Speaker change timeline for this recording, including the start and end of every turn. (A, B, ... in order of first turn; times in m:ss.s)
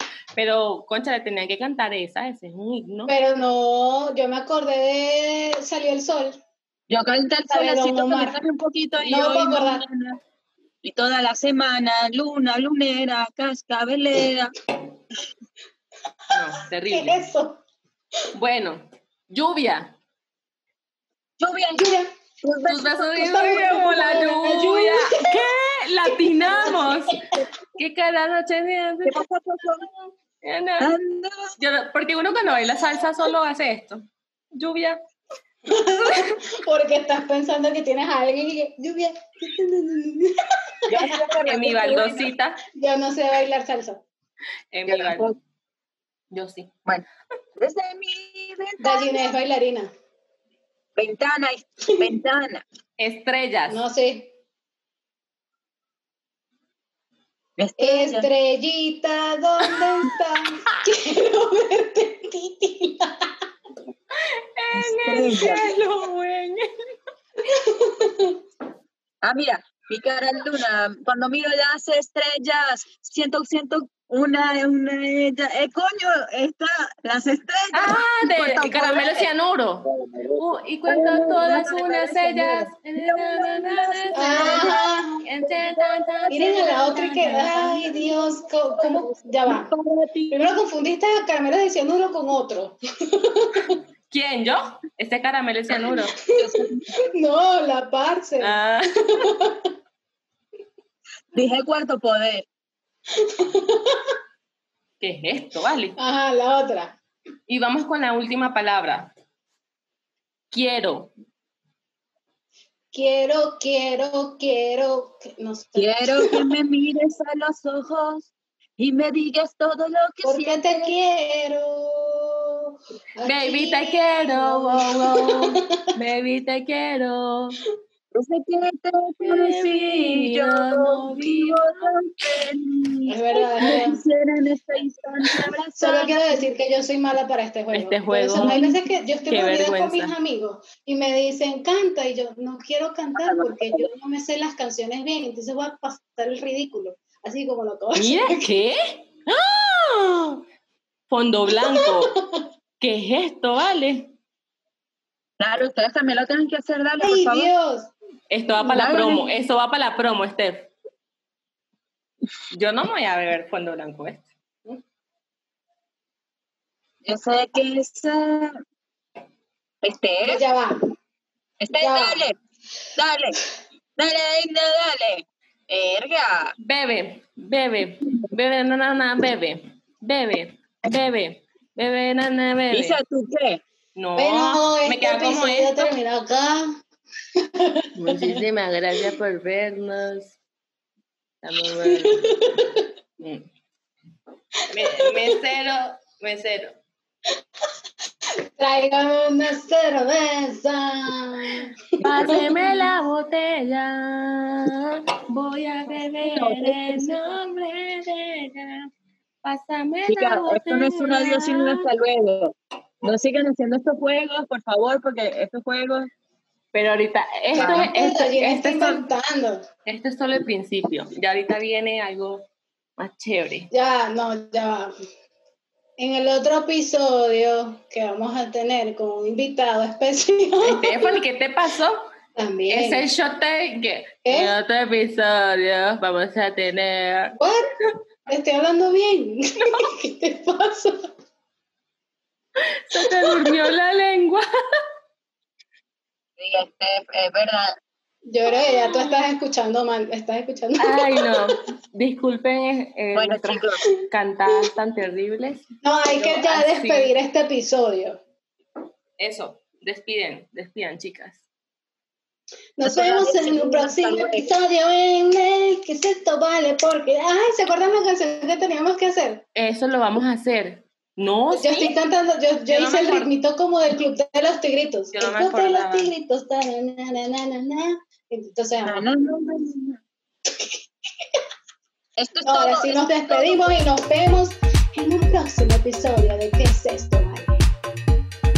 0:00.3-0:03.1 A
0:03.1-0:06.4 B
0:06.9-0:10.2 C
0:07.5-0:08.4 B
0:09.0-0:09.8 B
0:10.8-0:14.5 C
0:16.3-0:17.2 A
0:16.8-0:17.6 B
0:18.3-0:20.0 A
0:21.4-0:21.8 C
0:21.8-0:22.1 B
0:22.4-0:23.1 C
0:22.7-0:27.2 A
0:23.2-0:25.5 B
0:26.3-0:27.0 B
0:27.8-0:29.2 A
0:29.0-0:29.9 C
0:30.4-0:30.9 A
0:30.8-0:31.5 C
0:31.6-0:35.0 A
0:35.7-0:41.2 B
0:40.9-0:42.3 C
0:41.4-0:42.6 A
0:42.7-0:44.0 B
0:44.7-0:45.3 A
0:44.9-0:45.4 C
0:46.3-0:46.7 A
0:47.6-0:49.2 C
0:48.8-0:49.9 B
0:51.0-0:52.6 C
0:53.0-0:53.8 A
0:53.7-0:54.3 B
0:57.6-0:58.3 C
0:57.8-1:03.3 B
1:04.1-1:06.6 A
1:04.7-1:05.6 C
1:07.4-1:08.4 B
1:09.2-1:19.3 C
1:17.7-1:27.7 A
1:19.8-1:30.4 C
1:24.1-1:25.1 B
1:26.3-1:29.7 B
1:30.3-1:33.8 B
1:34.1-1:36.1 A
1:36.2-1:39.7 B
1:36.3-1:36.9 C
1:38.4-1:39.2 A
1:41.3-1:42.5 C
1:43.1-1:44.1 B
1:45.0-1:46.0 A
1:46.0-1:47.0 B
1:47.5-1:49.1 A
1:50.5-1:51.1 A
1:52.9-1:56.4 B
1:55.8-2:00.9 C
2:00.2-2:05.6 B
2:03.2-2:07.6 A
2:08.1-2:16.4 C
2:09.2-2:11.9 A
2:13.1-2:14.0 B
2:15.8-2:28.5 B
2:17.7-2:18.6 A
2:18.3-2:18.7 C
2:19.3-2:20.1 A
2:23.2-2:23.9 C
2:28.0-2:30.4 A
2:31.1-2:32.2 A
2:31.5-2:32.4 B
2:32.8-2:34.1 A
2:35.4-2:37.5 C
2:37.0-2:37.9 B
2:38.3-2:40.7 A
2:38.6-2:39.3 C
2:42.5-2:44.3 A
2:47.0-2:48.6 C
2:49.8-2:50.4 C
2:50.2-2:50.8 B
2:51.6-2:52.4 C
2:51.8-2:52.2 B
2:53.0-2:53.4 C
2:54.0-2:56.5 C
2:56.6-3:03.0 A
3:02.7-3:03.6 C
3:04.0-3:05.9 A
3:04.2-3:06.8 B
3:07.4-3:08.4 B
3:08.0-3:10.4 A
3:11.4-3:12.3 A
3:11.7-3:12.9 B
3:13.2-3:13.5 A
3:14.7-3:16.7 A
3:14.8-3:15.3 B
3:18.6-3:22.8 B
3:22.0-3:28.9 A
3:26.2-3:27.1 C
3:29.4-3:31.9 A
3:30.1-3:36.1 C
3:36.7-3:39.1 A
3:37.5-3:37.9 C
3:37.6-3:39.6 B
3:39.8-3:43.7 A
3:43.7-3:44.9 B
3:46.0-3:51.2 B
3:50.6-3:52.1 A
3:52.4-3:53.1 B
3:52.7-3:57.4 A
3:54.2-3:54.5 B
3:57.4-3:57.7 B
3:58.3-4:01.1 B
4:02.8-4:04.4 A
4:06.4-4:07.8 C
4:08.3-4:11.4 B
4:10.8-4:17.1 A
4:13.1-4:13.8 C
4:15.8-4:18.2 B
4:19.2-4:21.4 A
4:22.8-4:29.4 B
4:22.8-4:24.5 C
4:29.5-4:31.9 A
4:31.5-4:39.0 B
4:32.7-4:33.3 A
4:35.1-4:36.1 A
4:38.8-4:40.0 C
4:40.5-4:41.3 B
4:42.2-4:43.6 C
4:42.4-4:47.6 B